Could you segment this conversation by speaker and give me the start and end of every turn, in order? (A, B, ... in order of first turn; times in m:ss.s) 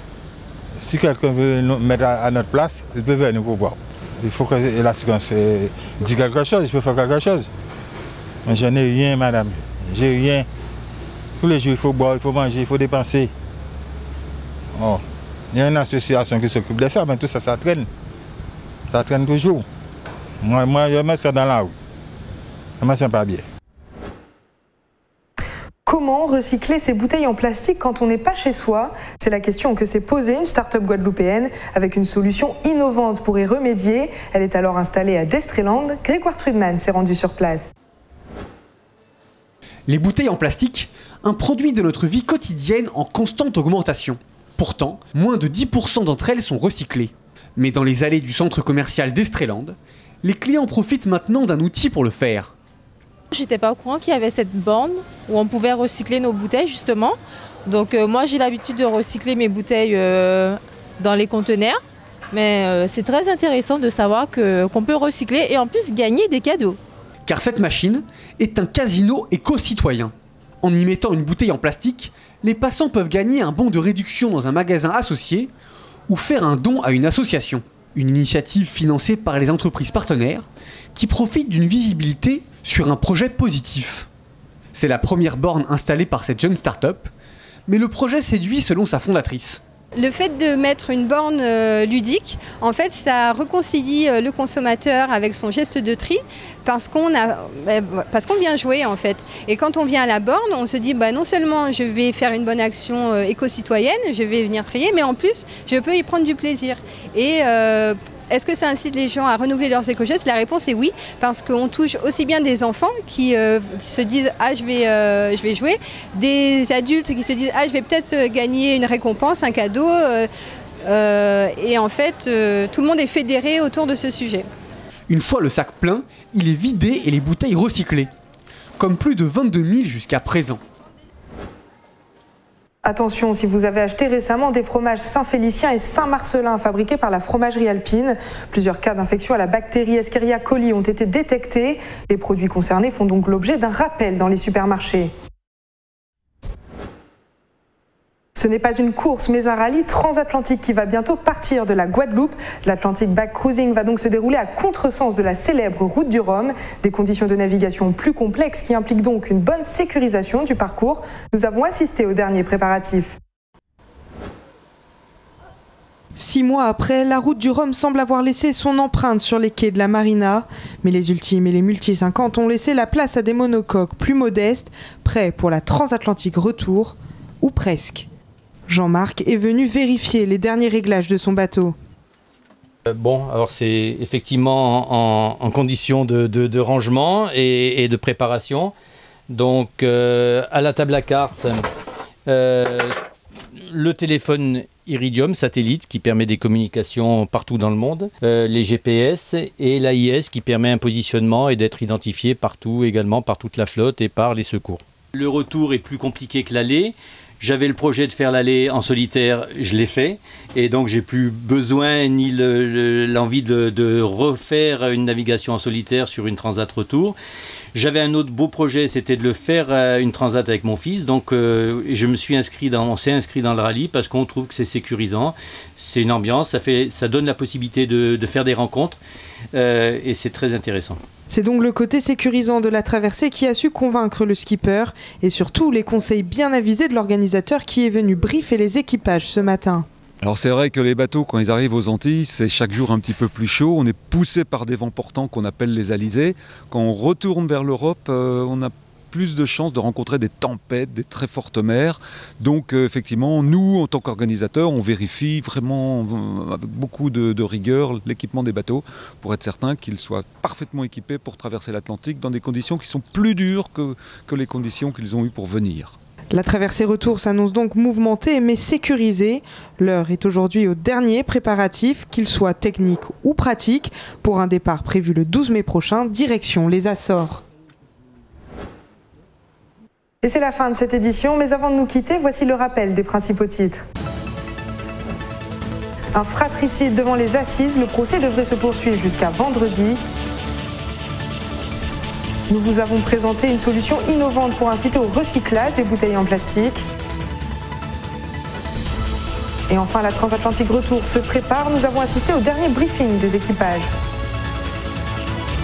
0:00.8-0:07.5 A
0:08.4-0:10.5 A
0:11.4-0:13.3 A
0:14.8-0:17.9 A
0:18.9-0:19.6 A
0:20.4-0:21.7 A
0:22.8-0:23.4 A
0:25.8-0:37.7 B
0:39.9-0:52.5 C
0:53.3-1:01.8 D
1:02.3-1:06.8 D
1:07.3-1:15.5 C
1:16.1-1:24.1 C
1:24.7-1:27.1 C
1:27.7-1:29.6 C
1:30.0-2:00.3 E
2:00.8-2:04.5 E
2:05.1-2:08.1 C
2:08.8-2:10.6 C
2:12.8-2:25.1 B
2:28.4-2:43.2 B
2:46.2-2:58.1 B
2:58.7-3:01.7 B
3:02.9-3:08.7 F
3:09.3-3:11.6 F
3:12.2-3:12.9 F
3:13.7-3:37.2 F
3:37.7-3:49.0 F
3:49.5-3:51.0 F
3:51.3-3:59.8 B
4:00.2-4:26.0 G
4:26.3-4:37.4 B
4:40.2-4:43.8 B
4:46.1-4:50.0 B
4:52.5-4:56.8 B
4:59.7-5:03.9 B